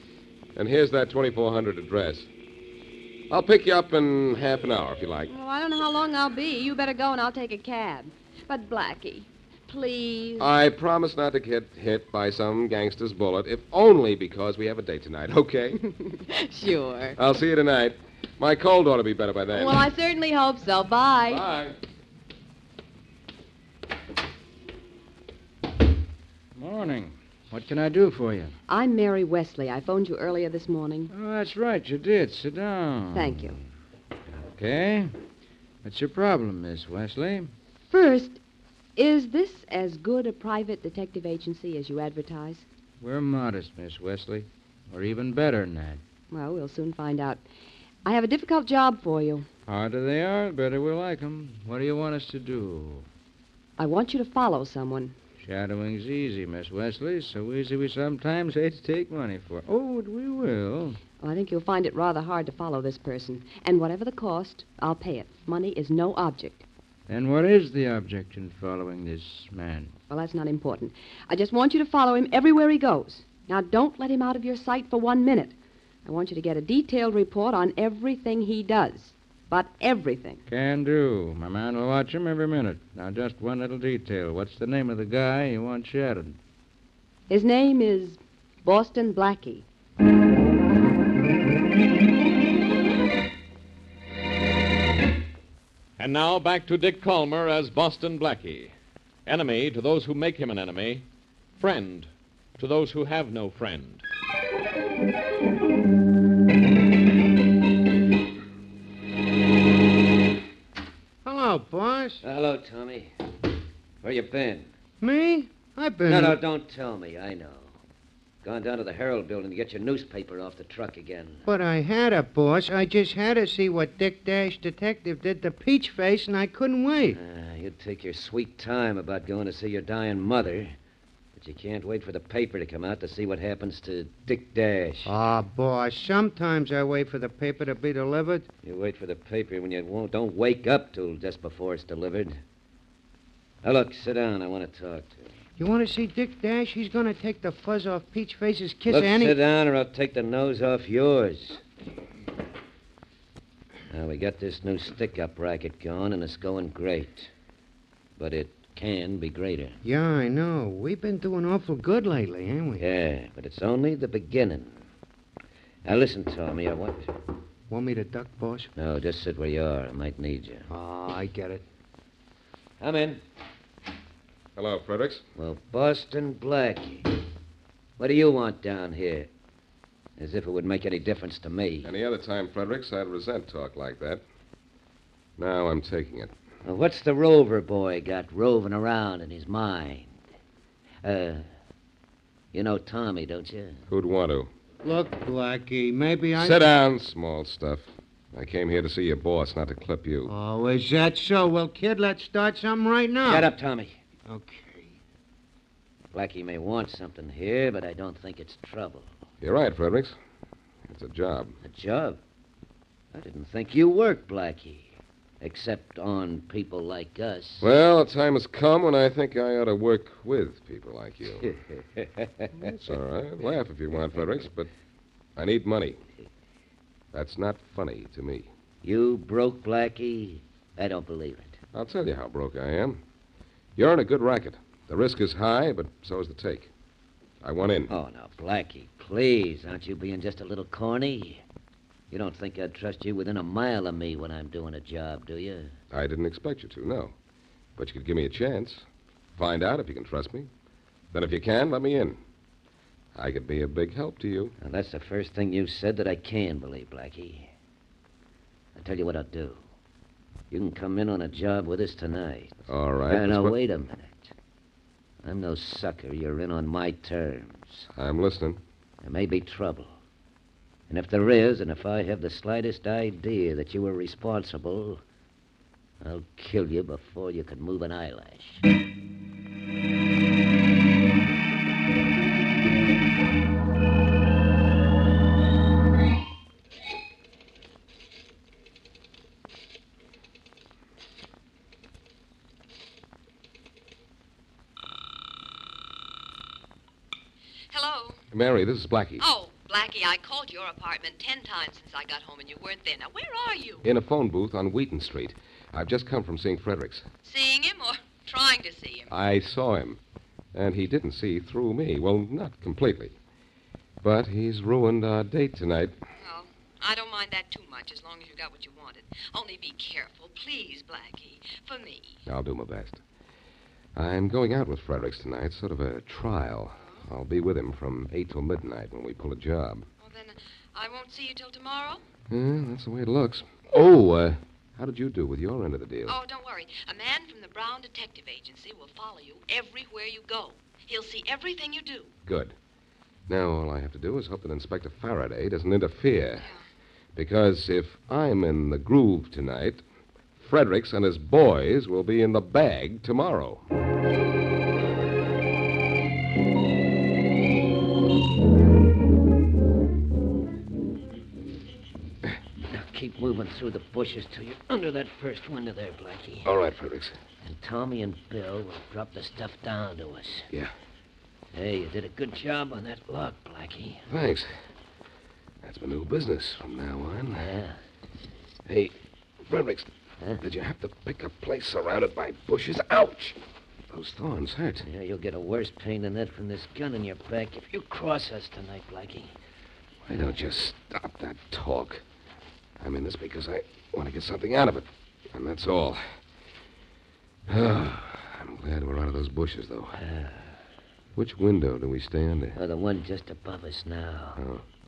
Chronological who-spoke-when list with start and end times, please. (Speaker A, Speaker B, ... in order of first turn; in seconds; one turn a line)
Speaker A: 0.6-2.3
Speaker A: 3.3-5.3
Speaker B: 5.3-10.5
Speaker A: 10.4-15.8
Speaker B: 15.8-17.2
Speaker A: 17.2-19.9
Speaker B: 19.5-21.4
Speaker A: 21.3-21.8
Speaker C: 26.6-28.5
Speaker B: 28.7-31.1
Speaker C: 31.1-33.5
Speaker B: 33.1-33.6
Speaker C: 34.4-35.1
Speaker C: 35.8-37.5
Speaker B: 37.9-38.4
Speaker B: 39.0-42.7
Speaker C: 43.0-46.0
Speaker B: 46.3-47.4
Speaker B: 48.0-49.5
Speaker C: 49.7-53.1
Speaker B: 53.8-55.1
Speaker C: 55.4-61.0
Speaker B: 61.2-66.7
Speaker C: 67.1-69.9
Speaker B: 70.1-75.5
Speaker B: 76.0-80.4
Speaker C: 80.5-86.4
Speaker B: 87.3-89.7
Speaker D: 96.0-98.7
Speaker D: 99.3-101.1
Speaker D: 101.6-104.0
Speaker E: 111.2-112.2
Speaker F: 112.2-113.1
Speaker F: 114.0-114.7
Speaker E: 115.0-116.4
Speaker F: 116.1-117.8
Speaker F: 118.4-121.5
Speaker E: 121.5-127.2
Speaker F: 127.1-130.8
Speaker F: 131.4-135.1
Speaker E: 135.0-138.5
Speaker F: 138.6-142.4
Speaker F: 143.6-145.3
Speaker E: 145.6-149.4
Speaker F: 148.9-151.6
Speaker F: 153.9-157.3
Speaker F: 158.2-159.8
Speaker E: 159.8-162.8
Speaker F: 162.8-164.8
Speaker F: 165.8-167.1
Speaker E: 167.7-168.7
Speaker F: 168.8-170.7
Speaker E: 170.7-171.6
Speaker F: 172.8-173.2
Speaker A: 174.6-175.2
Speaker F: 175.3-177.1
Speaker F: 178.0-179.3
Speaker F: 180.2-181.9
Speaker A: 181.8-184.2
Speaker A: 185.4-186.3
Speaker F: 186.6-190.2
Speaker F: 191.0-191.5
Speaker F: 192.5-193.8
Speaker A: 193.9-194.5
Speaker E: 194.8-196.6
Speaker A: 196.4-200.3
Speaker E: 200.3-203.5
Speaker F: 203.2-204.0
Speaker E: 204.3-205.0
Speaker F: 206.1-209.1
Speaker A: 209.4-210.2
Speaker A: 210.9-211.6
Speaker F: 211.6-212.2
Speaker F: 213.1-217.7
Speaker A: 217.6-221.5
Speaker F: 221.4-222.7
Speaker A: 222.8-224.7
Speaker A: 225.4-226.0
Speaker A: 227.1-228.5
Speaker F: 228.8-231.6
Speaker A: 231.7-233.0
Speaker A: 233.8-236.7
Speaker A: 237.4-237.9
Speaker F: 237.9-241.4
Speaker F: 242.1-245.7
Speaker A: 245.9-247.2
Speaker A: 247.8-248.8
Speaker A: 249.4-250.5
Speaker A: 251.1-252.2
Speaker A: 253.2-254.5
Speaker F: 254.6-257.5
Speaker F: 258.8-259.6
Speaker F: 260.5-264.3
Speaker A: 262.7-263.6
Speaker F: 265.2-267.9
Speaker A: 267.9-268.6
Speaker F: 269.0-270.0
Speaker F: 270.9-275.0
Speaker F: 276.0-278.6
Speaker B: 297.7-298.2
Speaker A: 298.3-299.2
Speaker B: 299.2-303.9
Speaker A: 303.8-307.1
Speaker B: 307.2-309.1
Speaker A: 309.1-310.0
Speaker A: 310.5-313.2
Speaker A: 314.0-315.9
Speaker B: 316.2-322.2
Speaker A: 322.3-323.0
Speaker A: 323.9-329.9
Speaker B: 330.0-332.0
Speaker A: 332.3-336.2
Speaker B: 336.1-342.1
Speaker A: 342.3-342.6
Speaker A: 343.3-346.5
Speaker A: 347.1-349.8
Speaker A: 350.4-353.6
Speaker F: 362.7-366.5
Speaker A: 366.4-367.2
Speaker F: 367.4-370.5
Speaker F: 371.5-374.1
Speaker A: 374.1-374.5
Speaker A: 375.6-377.5
Speaker F: 377.3-377.8
Speaker A: 378.7-383.4
Speaker A: 383.9-384.9
Speaker F: 384.8-389.4
Speaker A: 390.1-392.0
Speaker A: 392.8-396.0
Speaker A: 397.5-400.0
Speaker F: 400.0-400.5
Speaker A: 401.2-402.6
Speaker F: 402.6-404.4
Speaker A: 404.4-404.6